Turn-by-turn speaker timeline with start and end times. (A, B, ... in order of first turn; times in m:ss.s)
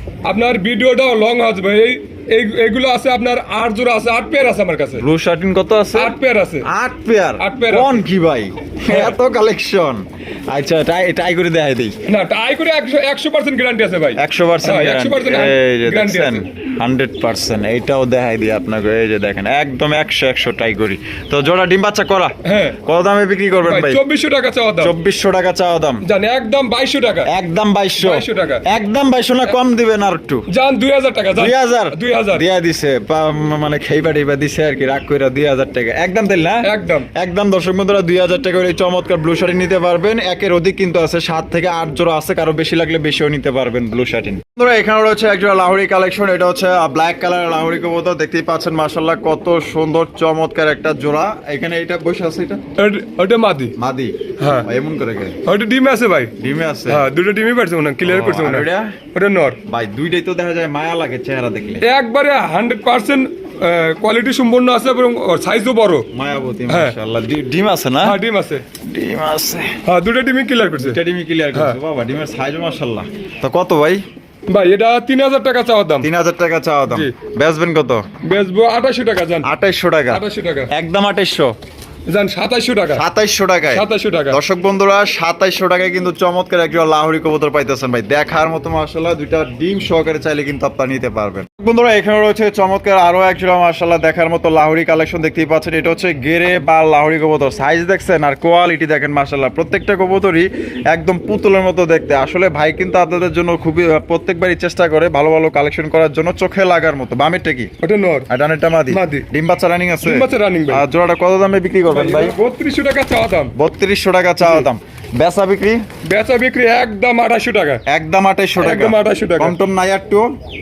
0:00.3-0:05.0 A
0:05.0-0:12.0 B
0:05.9-0:06.7 A
0:07.4-0:08.1 A
0:08.9-0:09.2 A
0:12.1-0:16.4 A
0:14.2-0:24.0 B
0:22.4-0:22.8 A
0:23.6-0:25.0 A
0:24.8-0:26.0 B
0:26.0-0:27.3 A
0:27.3-0:30.5 B
0:28.0-0:28.6 A
0:30.5-0:32.4 A
0:31.3-0:52.6 B
0:36.6-0:37.1 A
0:52.8-0:53.8 A
0:53.8-0:55.4 B
0:54.4-0:54.7 A
0:55.4-0:56.4 A
0:56.4-0:57.1 B
0:56.9-0:59.6 A
0:58.0-0:59.0 B
0:59.7-1:01.8 B
1:01.8-1:06.1 A
1:06.1-1:08.2 B
1:06.7-1:07.0 A
1:08.0-1:08.6 A
1:08.8-1:09.8 B
1:09.8-1:11.0 A
1:10.8-1:14.0 B
1:14.5-1:16.1 A
1:16.0-1:18.1 B
1:18.2-1:19.5 A
1:19.4-1:21.5 B
1:20.1-1:20.7 A
1:22.1-1:23.0 A
1:22.9-1:47.7 B
1:23.7-1:24.4 A
1:47.8-1:48.3 A
1:48.3-1:52.4 B
1:48.9-1:49.3 A
1:50.0-1:50.8 A
1:51.9-1:53.5 A
1:53.6-1:55.8 B
1:54.4-1:54.7 A
1:56.0-1:57.8 A
1:57.9-2:00.3 B
1:58.6-1:59.6 A